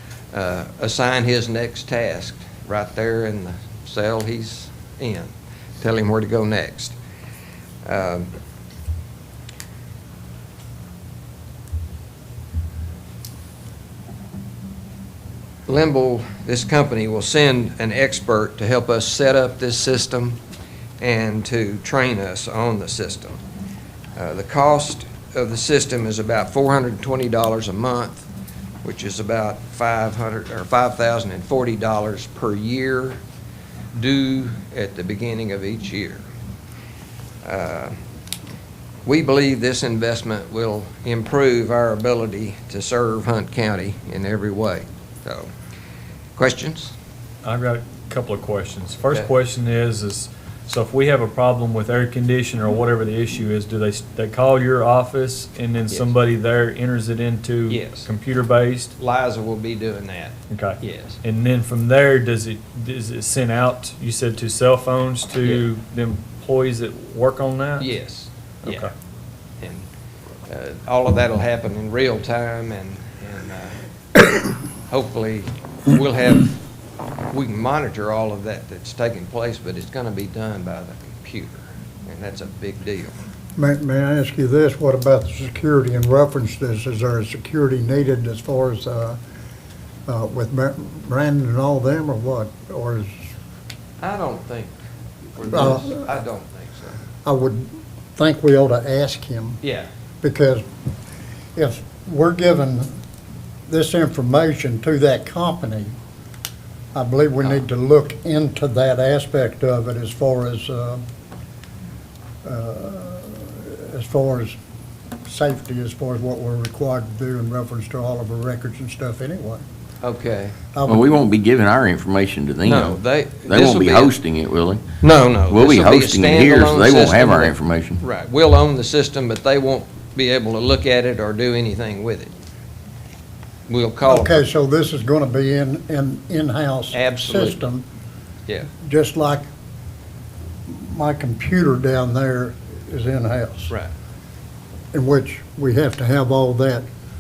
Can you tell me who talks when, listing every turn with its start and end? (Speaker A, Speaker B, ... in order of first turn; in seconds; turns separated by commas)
Speaker A: 0.3-7.0, Speaker A: 7.8-8.3, Speaker A: 15.7-20.4, Speaker A: 21.0-23.4, Speaker A: 24.2-28.3, Speaker A: 28.8-33.2, Speaker A: 33.9-36.2, Speaker A: 37.4-38.0, Speaker A: 39.0-45.5, Speaker A: 46.4-46.9, Speaker B: 47.4-58.9, Speaker A: 57.7-58.1, Speaker A: 59.0-61.2, Speaker B: 60.5-67.9, Speaker A: 67.8-68.9, Speaker B: 68.6-68.9, Speaker A: 69.6-69.9, Speaker A: 70.5-76.5, Speaker A: 77.3-83.2, Speaker C: 83.6-89.2, Speaker C: 90.1-93.1, Speaker A: 94.0-94.8, Speaker A: 95.4-97.0, Speaker C: 95.5-96.1, Speaker C: 97.2-99.6, Speaker A: 99.6-99.9, Speaker C: 100.2-100.6, Speaker C: 101.6-102.9, Speaker C: 103.7-105.9, Speaker C: 107.0-111.0, Speaker C: 112.4-114.6, Speaker C: 115.3-119.6, Speaker A: 120.0-120.5, Speaker C: 120.7-121.1, Speaker D: 120.9-124.8, Speaker A: 122.6-124.1, Speaker A: 125.0-132.3, Speaker D: 125.5-128.0, Speaker A: 133.7-134.4, Speaker C: 134.1-137.8, Speaker A: 136.9-137.6, Speaker C: 138.8-139.4, Speaker C: 140.7-143.7, Speaker C: 144.9-146.8